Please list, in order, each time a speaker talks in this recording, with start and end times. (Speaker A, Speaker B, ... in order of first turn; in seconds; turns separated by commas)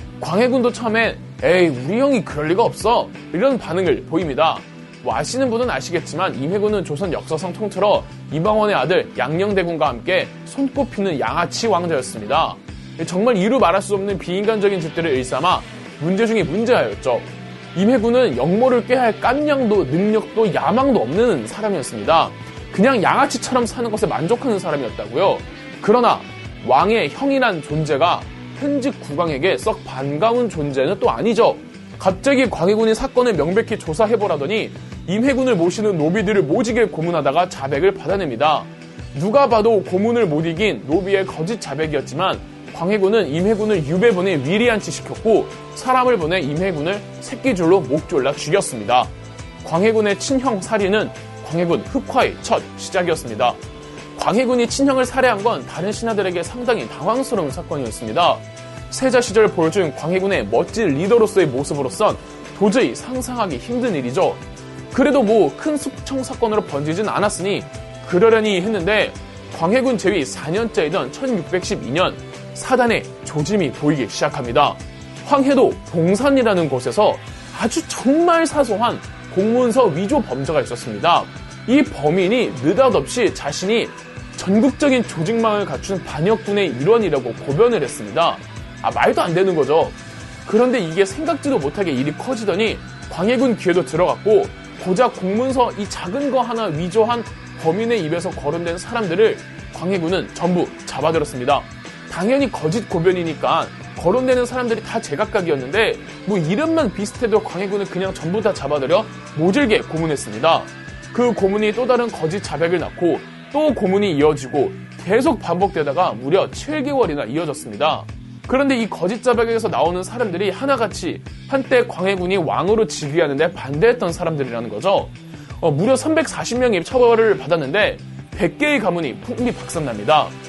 Speaker A: 0.2-53.6, Speaker A: 54.1-130.3